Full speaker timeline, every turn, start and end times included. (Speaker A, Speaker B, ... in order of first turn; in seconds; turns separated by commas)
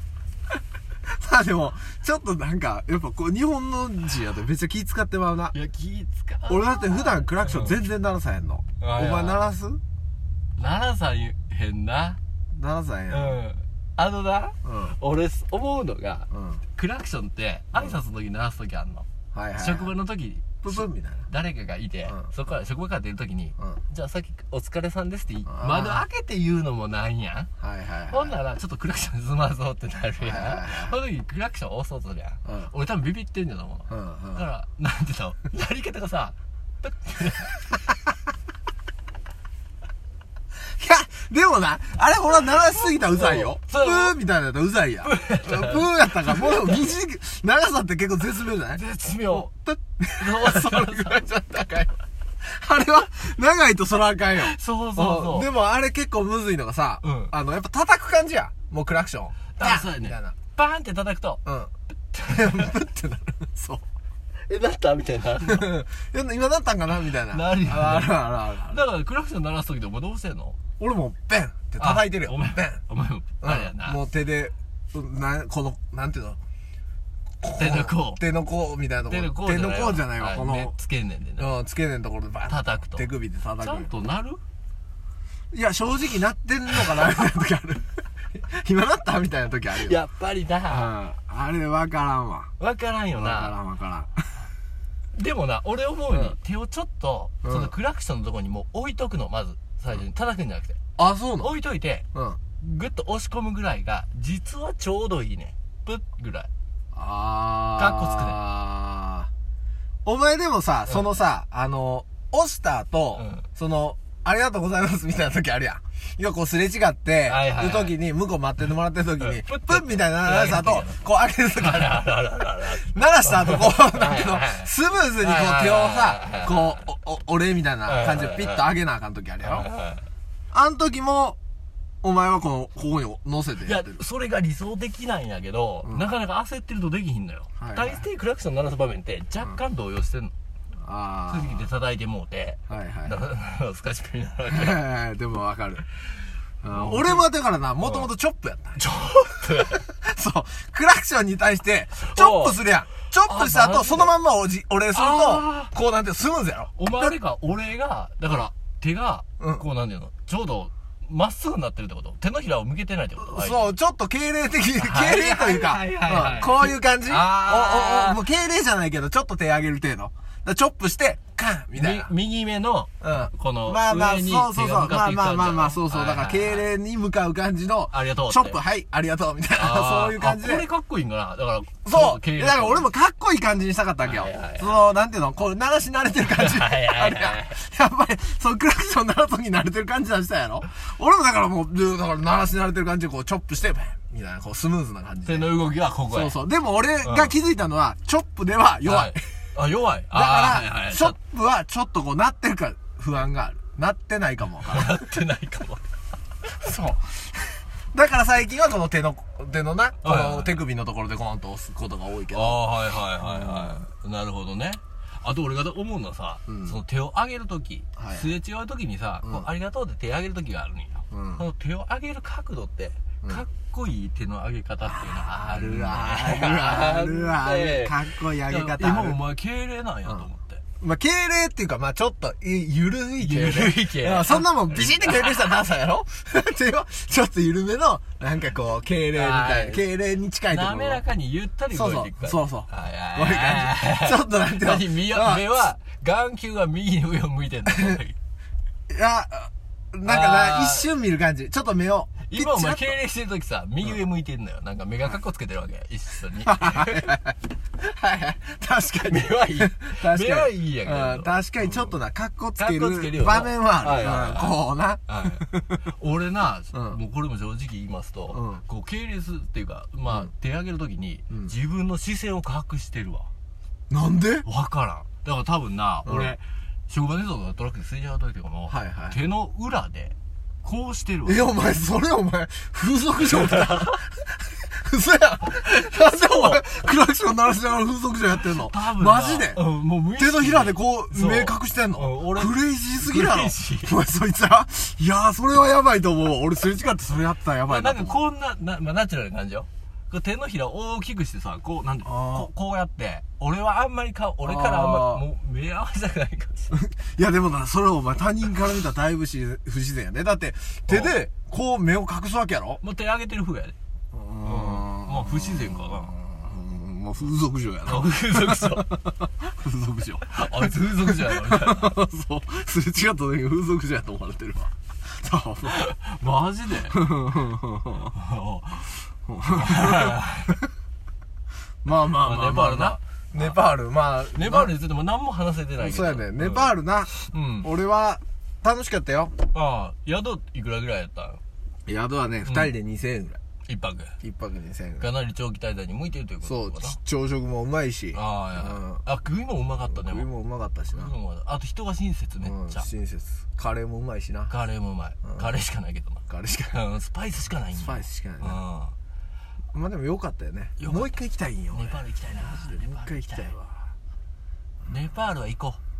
Speaker A: 1.0-5.5, Speaker B: 5.5-7.7, Speaker A: 6.5-9.8, Speaker B: 8.8-9.5, Speaker B: 10.6-12.2, Speaker A: 12.5-13.4, Speaker B: 13.1-19.1, Speaker A: 14.6-15.0, Speaker A: 16.3-16.6, Speaker A: 19.3-19.9, Speaker B: 19.6-27.5, Speaker A: 20.6-21.3, Speaker A: 25.5-26.0, Speaker A: 27.6-28.4, Speaker B: 28.1-37.5, Speaker A: 30.2-31.0, Speaker A: 32.4-32.7, Speaker A: 33.9-34.5, Speaker A: 40.5-60.3, Speaker B: 43.1-44.2, Speaker B: 45.0-46.7, Speaker B: 48.7-49.5, Speaker B: 50.2-51.2, Speaker B: 54.4-55.5, Speaker B: 57.0-57.3, Speaker B: 59.6-61.4, Speaker A: 61.4-61.7, Speaker B: 62.1-62.7, Speaker A: 62.2-63.8, Speaker B: 64.5-65.7, Speaker A: 65.4-68.8, Speaker B: 67.3-70.6, Speaker A: 70.8-72.8, Speaker B: 71.8-74.0, Speaker A: 73.4-76.4, Speaker A: 77.4-80.7, Speaker B: 77.6-78.2, Speaker B: 79.1-81.5, Speaker A: 81.4-83.9, Speaker B: 82.5-83.1, Speaker B: 83.6-84.4, Speaker A: 85.5-90.0, Speaker B: 89.7-90.9, Speaker A: 90.7-92.5, Speaker B: 92.6-93.6, Speaker A: 93.1-94.5, Speaker B: 95.1-100.8, Speaker A: 96.1-96.3, Speaker A: 97.4-97.7, Speaker A: 101.0-101.5, Speaker B: 101.4-102.0, Speaker A: 102.1-102.4, Speaker B: 102.6-106.5, Speaker A: 106.9-109.3, Speaker B: 107.8-108.4, Speaker A: 110.0-129.7, Speaker B: 113.2-113.4, Speaker B: 117.3-117.9, Speaker B: 119.2-121.0, Speaker B: 121.5-126.8, Speaker B: 127.8-128.7, Speaker B: 129.4-130.1, Speaker A: 130.5-131.4, Speaker A: 132.0-134.0, Speaker B: 133.6-140.3, Speaker A: 137.6-138.1, Speaker A: 140.8-141.7, Speaker B: 141.3-144.8, Speaker A: 142.7-143.2, Speaker A: 144.5-145.8, Speaker A: 146.6-148.9, Speaker B: 146.7-147.2, Speaker B: 148.8-149.8, Speaker A: 149.5-157.2, Speaker B: 152.0-152.6, Speaker B: 153.2-154.1, Speaker B: 154.9-155.7, Speaker B: 156.8-163.7, Speaker A: 159.4-159.7, Speaker A: 163.2-172.1, Speaker B: 164.8-168.2, Speaker B: 171.7-176.7, Speaker A: 173.0-180.7, Speaker B: 177.9-178.6, Speaker B: 179.6-182.9, Speaker A: 181.8-195.5, Speaker B: 184.0-184.8, Speaker B: 186.2-187.6, Speaker B: 195.2-196.3, Speaker A: 196.1-199.3, Speaker B: 197.0-197.3, Speaker B: 198.8-201.2, Speaker A: 200.1-205.1, Speaker B: 204.7-205.8, Speaker A: 206.5-213.8, Speaker B: 210.0-210.6, Speaker B: 212.3-230.6, Speaker A: 216.5-216.8, Speaker A: 218.0-218.3, Speaker A: 219.2-219.5, Speaker A: 221.1-221.4, Speaker A: 224.8-229.2, Speaker A: 230.8-241.0, Speaker B: 233.2-235.4, Speaker B: 239.1-239.9, Speaker B: 240.5-248.2, Speaker A: 241.7-245.6, Speaker A: 248.9-253.0, Speaker B: 250.0-250.9, Speaker B: 252.3-257.1, Speaker A: 256.4-265.8, Speaker B: 259.1-261.9, Speaker B: 262.6-273.3, Speaker A: 266.7-267.0, Speaker A: 268.3-268.6, Speaker A: 273.9-274.4, Speaker B: 274.4-281.5, Speaker A: 276.0-276.4, Speaker A: 278.7-279.2, Speaker A: 281.2-298.2, Speaker B: 286.3-286.6, Speaker B: 288.4-293.9, Speaker B: 297.7-306.8, Speaker A: 302.0-302.5, Speaker A: 304.4-305.2, Speaker A: 306.7-312.8, Speaker B: 310.9-311.2, Speaker B: 312.8-313.8, Speaker A: 314.1-325.9, Speaker B: 314.4-316.1, Speaker B: 317.9-319.0, Speaker B: 320.2-322.0, Speaker B: 325.6-327.0, Speaker A: 326.9-328.1, Speaker B: 328.1-330.6, Speaker A: 329.3-330.6, Speaker A: 331.8-334.7, Speaker B: 332.2-333.5, Speaker B: 334.3-336.7, Speaker A: 335.8-339.3, Speaker B: 337.3-337.7, Speaker B: 339.5-341.4, Speaker A: 341.9-343.4, Speaker B: 342.4-342.7, Speaker B: 343.7-344.2, Speaker A: 344.2-345.1, Speaker B: 345.0-347.0, Speaker A: 346.4-349.0, Speaker B: 348.1-350.3, Speaker A: 349.9-351.1, Speaker B: 350.9-352.9, Speaker A: 352.4-354.5, Speaker B: 354.5-358.9, Speaker A: 356.3-356.8, Speaker A: 357.7-358.6, Speaker A: 359.7-363.9, Speaker B: 360.8-361.1, Speaker B: 361.7-363.5, Speaker B: 364.9-365.8